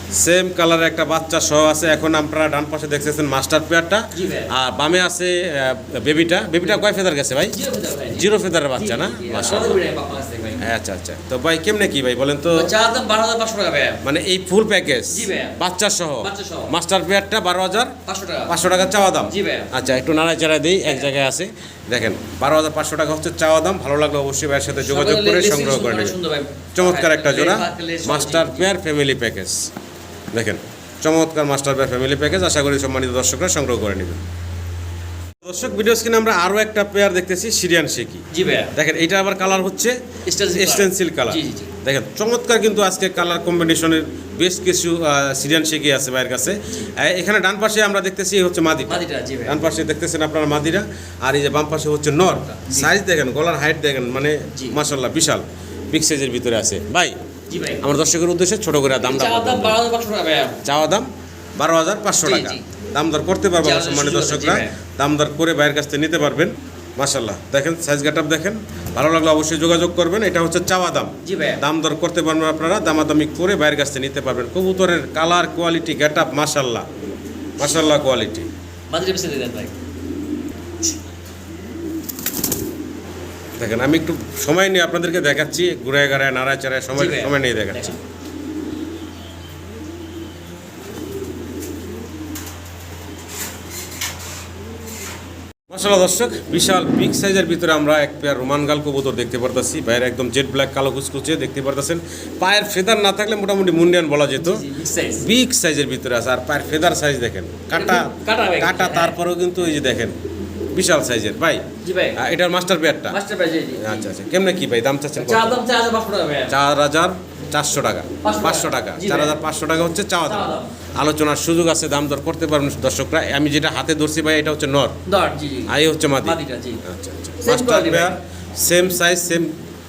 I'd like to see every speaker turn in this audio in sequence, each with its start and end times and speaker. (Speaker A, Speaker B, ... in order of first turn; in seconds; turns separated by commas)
Speaker A: 0.2-7.6, Speaker B: 4.1-4.5, Speaker B: 7.5-10.7, Speaker A: 8.1-9.8, Speaker A: 10.6-12.7, Speaker B: 12.5-14.0, Speaker A: 14.0-17.9, Speaker B: 15.1-15.6, Speaker B: 16.2-16.7, Speaker B: 18.1-18.5, Speaker A: 18.5-26.2, Speaker B: 19.2-19.7, Speaker B: 20.8-21.1, Speaker B: 24.7-28.7, Speaker A: 26.7-29.7, Speaker A: 30.3-34.2, Speaker A: 35.4-38.2, Speaker B: 38.3-38.7, Speaker A: 38.7-39.9, Speaker B: 40.2-41.7, Speaker A: 40.5-57.1, Speaker B: 48.9-49.6, Speaker B: 52.5-52.9, Speaker B: 57.5-57.8, Speaker A: 57.8-59.8, Speaker B: 59.0-60.6, Speaker A: 60.6-61.1, Speaker A: 61.6-76.8, Speaker B: 62.2-62.6, Speaker B: 63.6-64.7, Speaker B: 71.2-71.6, Speaker A: 77.6-78.5, Speaker B: 78.9-79.7, Speaker A: 83.6-88.0, Speaker B: 86.9-88.0, Speaker A: 95.7-104.7, Speaker B: 104.4-105.2, Speaker A: 105.2-110.2, Speaker B: 107.7-109.2, Speaker A: 110.7-111.6, Speaker B: 111.8-112.2, Speaker A: 112.2-113.2, Speaker B: 113.1-114.1, Speaker A: 113.8-115.6, Speaker B: 115.2-116.5, Speaker A: 116.5-125.0, Speaker B: 118.2-119.4, Speaker B: 120.2-120.7, Speaker B: 125.0-126.8, Speaker A: 125.7-129.5, Speaker B: 127.4-128.1